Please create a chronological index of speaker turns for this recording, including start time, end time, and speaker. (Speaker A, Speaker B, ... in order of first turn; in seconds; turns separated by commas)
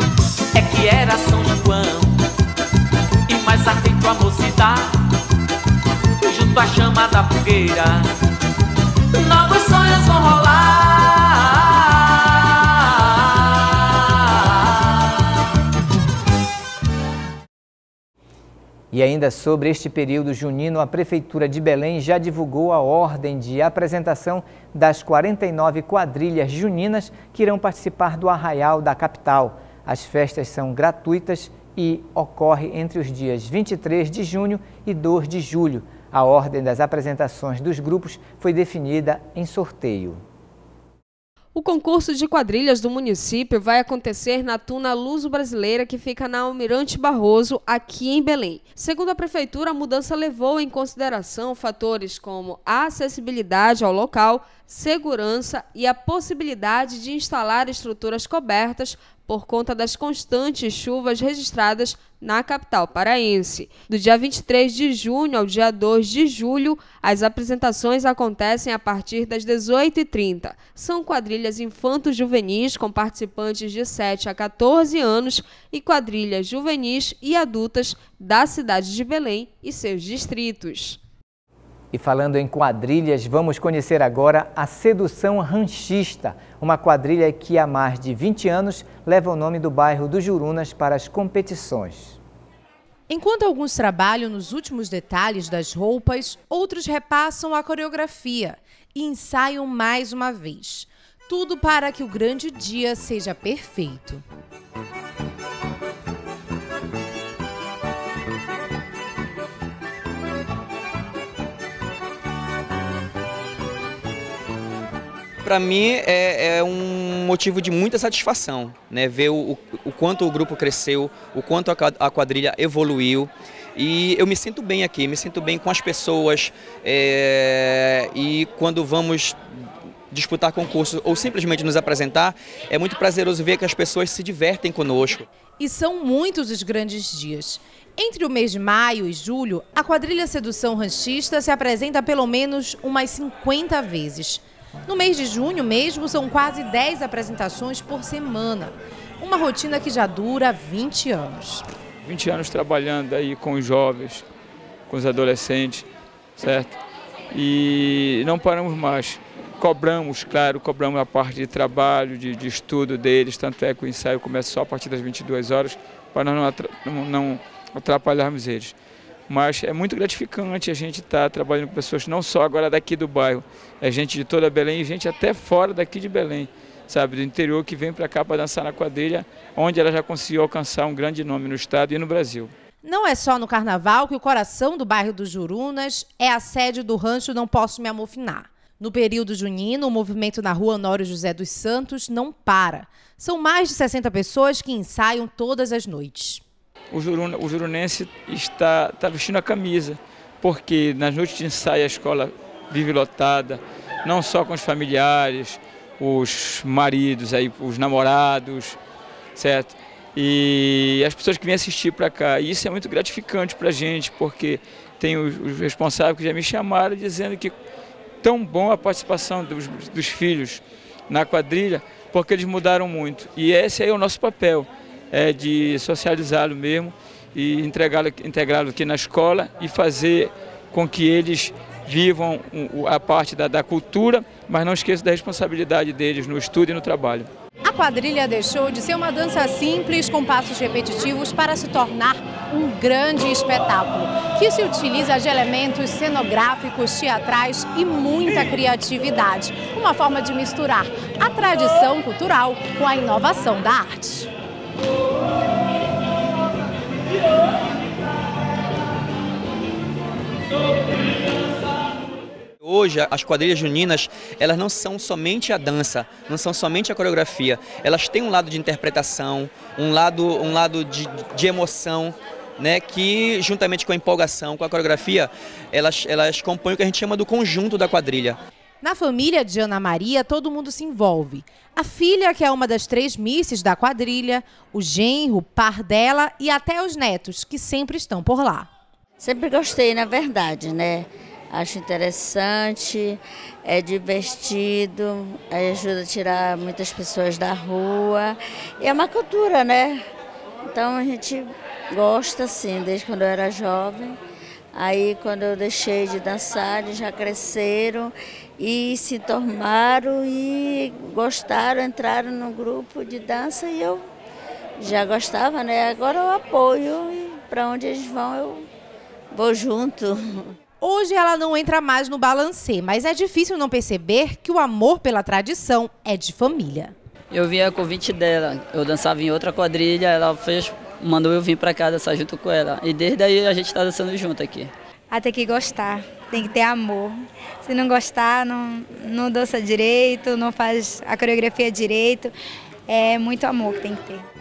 Speaker A: 0.6-2.2, Speaker A: 3.3-5.0, Speaker A: 6.2-8.1, Speaker A: 9.2-11.6, Speaker B: 18.9-40.2, Speaker C: 41.5-81.0, Speaker B: 81.9-92.2, Speaker D: 93.1-104.2, Speaker E: 115.5-129.4, Speaker E: 130.1-135.2, Speaker D: 135.6-151.7, Speaker F: 152.0-154.2, Speaker F: 154.9-155.9, Speaker F: 156.4-156.7, Speaker F: 157.3-168.7, Speaker F: 169.3-182.5, Speaker D: 182.8-196.4, Speaker F: 196.9-208.8, Speaker F: 209.4-217.6, Speaker F: 218.2-237.3, Speaker D: 237.7-254.3, Speaker E: 262.6-278.4, Speaker D: 278.8-288.7, Speaker G: 289.2-300.0, Speaker G: 300.7-304.2, Speaker G: 304.7-314.1, Speaker G: 314.8-318.7, Speaker G: 319.3-320.5, Speaker D: 320.8-326.9, Speaker H: 327.3-334.7, Speaker I: 335.1-342.3, Speaker I: 342.9-344.2